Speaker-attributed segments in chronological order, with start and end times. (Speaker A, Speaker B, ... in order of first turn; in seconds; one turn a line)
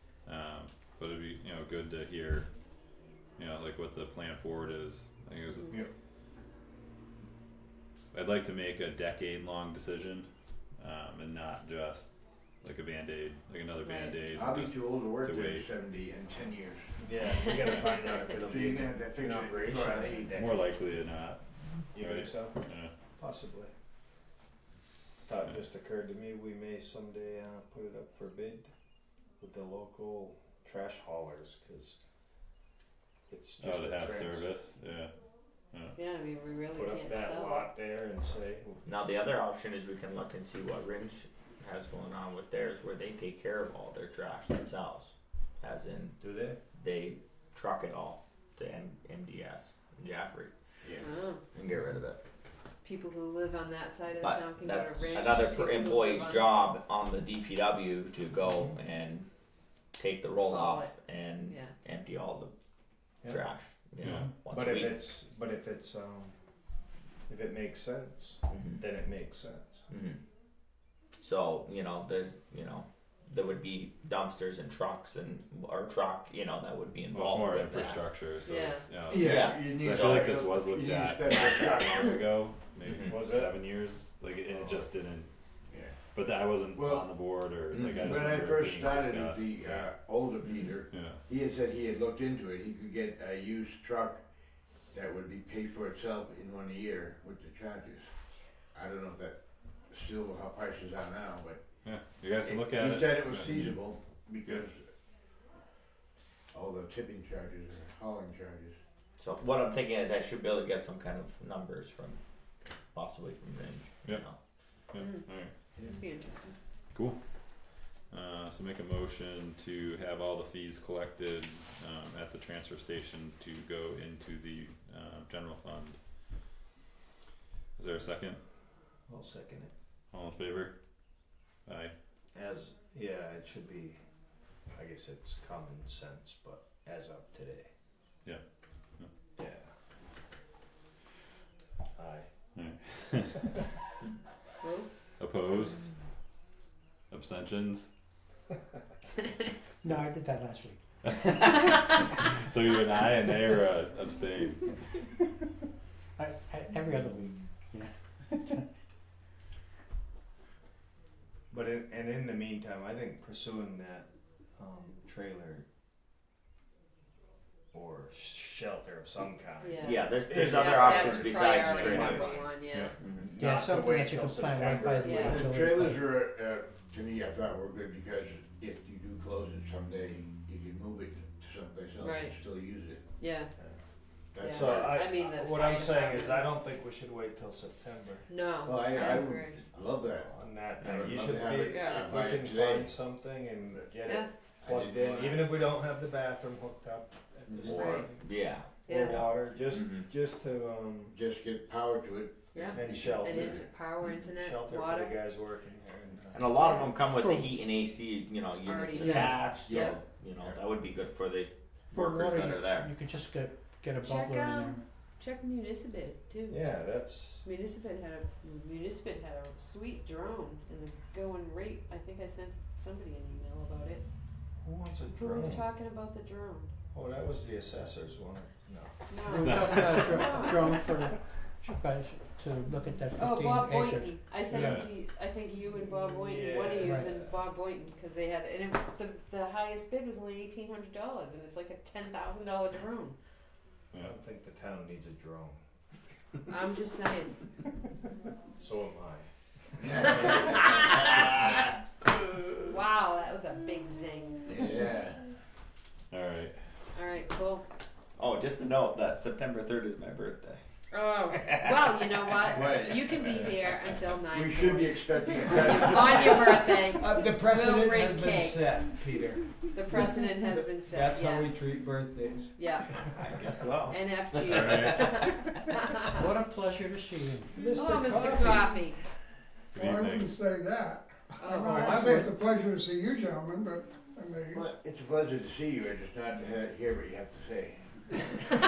Speaker A: 0.2-2.5
Speaker A: 3.4-5.7
Speaker A: 8.1-10.3
Speaker A: 10.8-12.1
Speaker A: 12.6-15.7
Speaker B: 13.8-14.2
Speaker C: 14.3-16.9
Speaker D: 17.0-20.6
Speaker C: 18.4-20.3
Speaker A: 20.3-21.4
Speaker D: 21.9-23.7
Speaker A: 21.9-22.9
Speaker D: 25.2-28.7
Speaker D: 29.4-31.9
Speaker D: 33.3-34.5
Speaker A: 33.6-35.1
Speaker B: 35.9-37.7
Speaker D: 36.7-38.8
Speaker E: 38.8-46.2
Speaker D: 46.2-46.6
Speaker E: 46.7-50.5
Speaker C: 50.8-51.1
Speaker B: 51.0-51.5
Speaker E: 51.5-52.2
Speaker B: 52.8-56.7
Speaker E: 54.2-59.2
Speaker E: 59.9-62.5
Speaker B: 60.4-61.8
Speaker E: 63.3-65.1
Speaker A: 64.0-64.3
Speaker D: 64.4-66.3
Speaker D: 67.3-69.9
Speaker E: 68.5-68.8
Speaker E: 69.9-70.2
Speaker E: 71.2-78.0
Speaker A: 77.1-85.3
Speaker B: 78.4-78.8
Speaker C: 79.1-82.2
Speaker E: 79.2-80.3
Speaker E: 82.9-83.2
Speaker D: 83.0-83.6
Speaker C: 85.7-86.0
Speaker A: 86.1-89.9
Speaker C: 86.7-87.0
Speaker E: 87.7-88.1
Speaker C: 88.0-94.3
Speaker A: 90.9-91.2
Speaker C: 94.9-98.1
Speaker C: 98.7-101.6
Speaker A: 101.8-103.8
Speaker C: 102.4-104.8
Speaker C: 106.5-108.8
Speaker E: 109.2-112.2
Speaker E: 112.9-114.3
Speaker A: 114.9-115.5
Speaker B: 114.9-115.2
Speaker B: 115.9-116.5
Speaker A: 118.1-126.0
Speaker A: 127.8-128.4
Speaker D: 129.1-129.7
Speaker A: 130.1-130.7
Speaker A: 131.7-131.9
Speaker D: 132.3-134.0
Speaker D: 134.7-137.7
Speaker D: 139.4-139.7
Speaker D: 141.9-142.3
Speaker A: 142.5-143.5
Speaker B: 144.6-144.9
Speaker A: 145.2-145.9
Speaker A: 147.1-147.9
Speaker F: 149.8-150.8
Speaker A: 151.0-154.7
Speaker F: 156.2-158.6
Speaker D: 161.5-164.1
Speaker D: 164.6-165.6
Speaker D: 167.7-172.5
Speaker B: 169.6-173.0
Speaker E: 169.8-172.4
Speaker E: 173.0-173.3
Speaker D: 173.2-175.5
Speaker F: 173.4-176.1
Speaker B: 175.0-175.4
Speaker C: 175.2-183.0
Speaker B: 182.0-182.4
Speaker B: 183.2-183.5
Speaker C: 184.3-185.0
Speaker B: 184.4-186.5
Speaker D: 184.5-188.2
Speaker B: 188.3-189.6
Speaker C: 188.6-192.9
Speaker D: 189.7-198.2
Speaker B: 191.6-192.0
Speaker C: 194.6-195.6
Speaker C: 197.5-197.8
Speaker E: 197.6-200.0
Speaker B: 197.7-198.1
Speaker B: 198.8-199.2
Speaker D: 198.9-201.1
Speaker C: 201.1-203.6
Speaker B: 202.5-205.2
Speaker D: 202.7-203.7
Speaker D: 204.3-206.5
Speaker E: 206.3-212.9
Speaker B: 206.6-206.9
Speaker F: 207.1-207.5
Speaker B: 208.6-210.0
Speaker C: 209.7-210.6
Speaker F: 211.9-214.8
Speaker B: 214.0-216.6
Speaker D: 216.5-217.4
Speaker B: 217.4-224.0
Speaker D: 224.6-225.7
Speaker B: 225.2-226.7
Speaker D: 226.9-229.6
Speaker B: 229.1-230.7
Speaker F: 229.2-234.8
Speaker A: 229.4-230.3
Speaker B: 233.2-243.2
Speaker A: 234.5-234.9
Speaker D: 236.2-237.4
Speaker F: 236.8-237.2
Speaker D: 243.9-245.6
Speaker B: 246.5-247.4
Speaker D: 248.6-251.1
Speaker C: 249.8-250.6
Speaker C: 251.2-251.4
Speaker B: 252.6-254.6
Speaker C: 254.5-255.2
Speaker A: 256.1-256.6
Speaker B: 256.9-257.6
Speaker E: 258.2-260.6
Speaker B: 260.9-268.6
Speaker E: 261.3-262.4
Speaker C: 262.5-263.5
Speaker C: 264.3-266.4
Speaker D: 266.9-269.7
Speaker B: 269.7-271.5
Speaker D: 270.8-273.2
Speaker B: 272.6-273.0
Speaker E: 273.1-275.6
Speaker B: 273.9-276.3
Speaker A: 274.5-274.9
Speaker F: 276.1-277.7
Speaker D: 277.6-278.7
Speaker G: 277.6-278.7
Speaker B: 277.7-279.0
Speaker A: 279.7-280.3
Speaker G: 279.8-284.6
Speaker B: 281.4-282.1
Speaker F: 281.6-282.4
Speaker C: 284.5-288.1